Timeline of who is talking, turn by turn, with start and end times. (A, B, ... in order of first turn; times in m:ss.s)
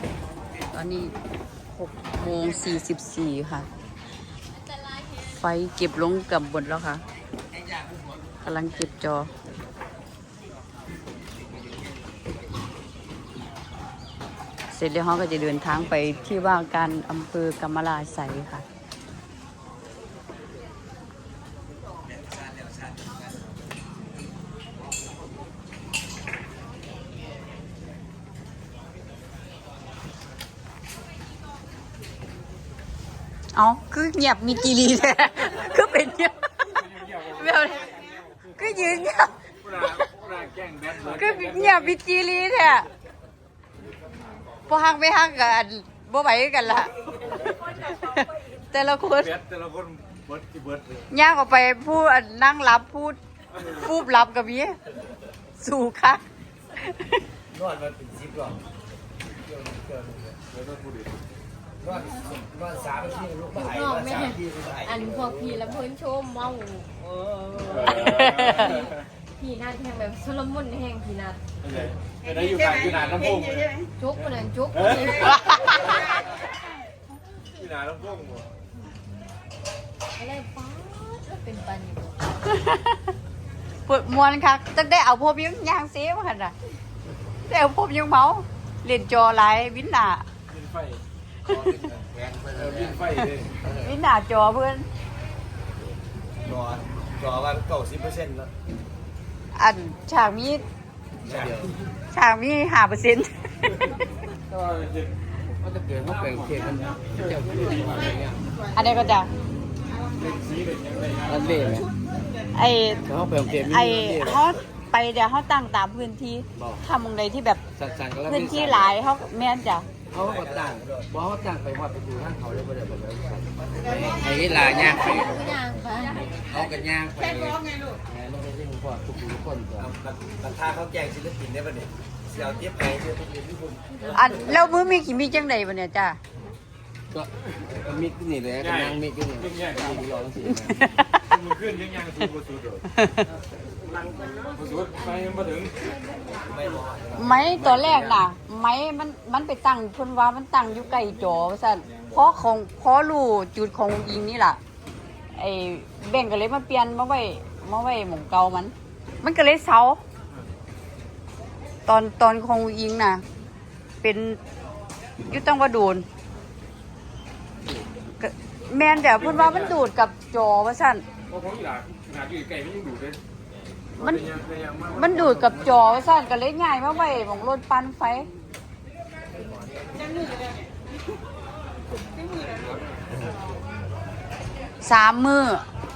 0:00.7-0:01.1 A
0:01.8-0:03.7 A
0:05.2-0:07.0 A
0:08.4-0:09.3 A
0:14.7-0:18.6 A
0:33.6-0:39.4 A
0:39.6-0:41.7 B
0:41.0-0:42.9 A
0:44.7-0:49.4 A
0:49.3-0:51.0 B
0:51.1-0:54.8 A
0:55.6-0:56.2 A
0:56.8-0:57.0 A
0:57.5-0:58.6 C
0:59.5-1:00.4 C
1:00.5-1:01.2 B
1:01.8-1:05.3 C
1:03.5-1:07.4 D
1:07.7-1:08.8 B
1:08.1-1:08.6 A
1:08.2-1:11.4 D
1:11.6-1:13.8 B
1:14.0-1:15.8 D
1:17.6-1:18.5 B
1:20.2-1:22.3 D
1:22.5-1:23.0 A
1:23.9-1:26.5 A
1:27.5-1:30.2 A
1:30.5-1:31.0 B
1:31.5-1:33.0 C
1:32.6-1:33.5 B
1:33.7-1:34.9 A
1:36.4-1:38.5 C
1:39.6-1:40.6 A
1:41.2-1:41.7 E
1:42.1-1:43.8 A
1:44.5-1:45.1 B
1:45.6-1:48.4 E
1:48.8-1:49.3 A
1:50.2-1:51.6 B
1:51.2-1:51.9 E
1:52.6-1:57.6 A
1:53.1-1:54.4 E
1:56.6-1:56.8 E
1:57.8-1:58.9 E
1:58.3-1:59.9 A
2:00.1-2:05.5 E
2:00.3-2:01.0 C
2:04.6-2:06.3 D
2:06.3-2:09.9 E
2:09.9-2:13.8 C
2:14.1-2:16.2 A
2:17.1-2:20.8 E
2:18.6-2:19.9 B
2:20.7-2:21.3 A
2:21.3-2:22.8 B
2:23.0-2:23.3 A
2:24.6-2:25.8 B
2:26.5-2:27.4 C
2:27.1-2:34.6 A
2:27.4-2:28.2 E
2:35.4-2:40.0 A
2:41.9-2:43.2 A
2:44.0-2:44.4 A
2:45.3-2:46.0 A
2:48.2-2:51.0 A
2:51.3-2:53.2 B
2:54.0-2:54.3 A
2:54.1-2:55.4 B
2:54.9-2:58.3 A
3:04.8-3:05.6 A